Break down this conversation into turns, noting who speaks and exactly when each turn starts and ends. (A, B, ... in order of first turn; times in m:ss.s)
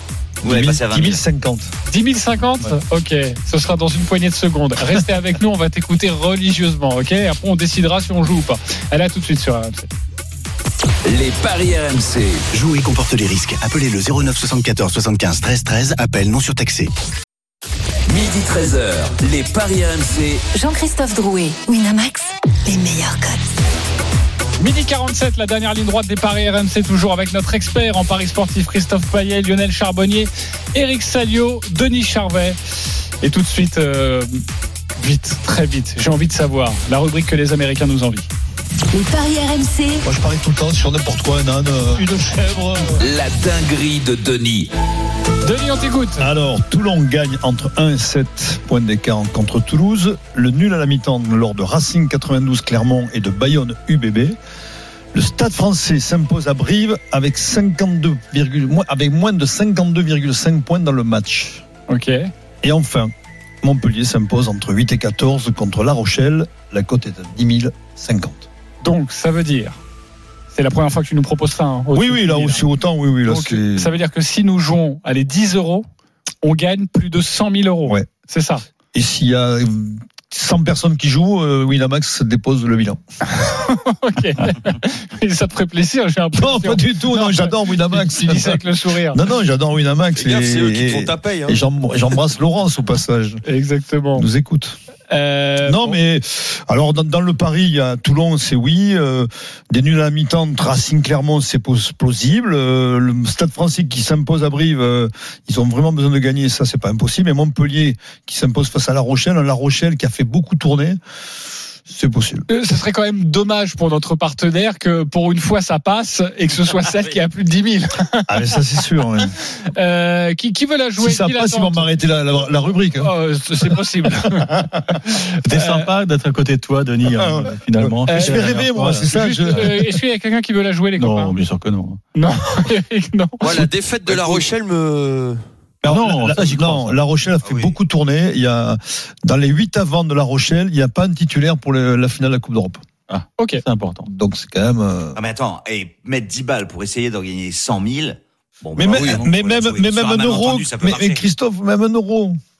0:00.4-0:01.2 A
0:00.4-0:01.7 B
0:01.9-0:09.9 C
0:11.0-0:12.4 D
0:12.5-0:16.9 E
0:18.1-0:20.4 D
0:20.5-0:23.5 F
0:24.6-0:32.6 C
0:33.2-0:34.4 C
0:35.0-0:38.3 C
0:38.9-0:40.0 F
0:40.0-0:43.1 B
0:43.0-0:44.7 D
0:45.4-0:46.3 C
0:46.2-0:54.4 B
0:55.1-1:01.6 B
1:01.9-1:02.3 C
1:02.6-1:08.4 B
1:08.8-1:09.8 C
1:10.5-1:12.7 C
1:11.9-1:14.0 B
1:13.3-1:15.8 C
1:16.4-1:18.6 C
1:18.9-1:23.0 B
1:23.3-1:29.2 C
1:26.3-1:28.6 B
1:29.1-1:33.4 B
1:30.2-1:31.6 G
1:33.4-1:34.3 C
1:34.2-1:34.8 B
1:35.1-1:36.0 C
1:35.6-1:51.0 B
1:51.9-1:52.4 B
1:52.5-1:58.3 C
1:58.3-1:59.3 B
1:59.7-2:01.9 C
2:01.0-2:04.6 B
2:03.0-2:05.8 C
2:05.4-2:09.7 H
2:07.0-2:09.8 B
2:08.1-2:11.4 C
2:11.0-2:12.0 H
2:12.1-2:13.4 C
2:13.4-2:15.4 G
2:15.8-2:17.0 H
2:15.8-2:22.8 B
2:17.4-2:17.7 A
2:23.1-2:24.1 H
2:24.0-2:25.2 B
2:25.1-2:31.2 A
2:28.8-2:32.4 B
2:29.0-2:29.2 G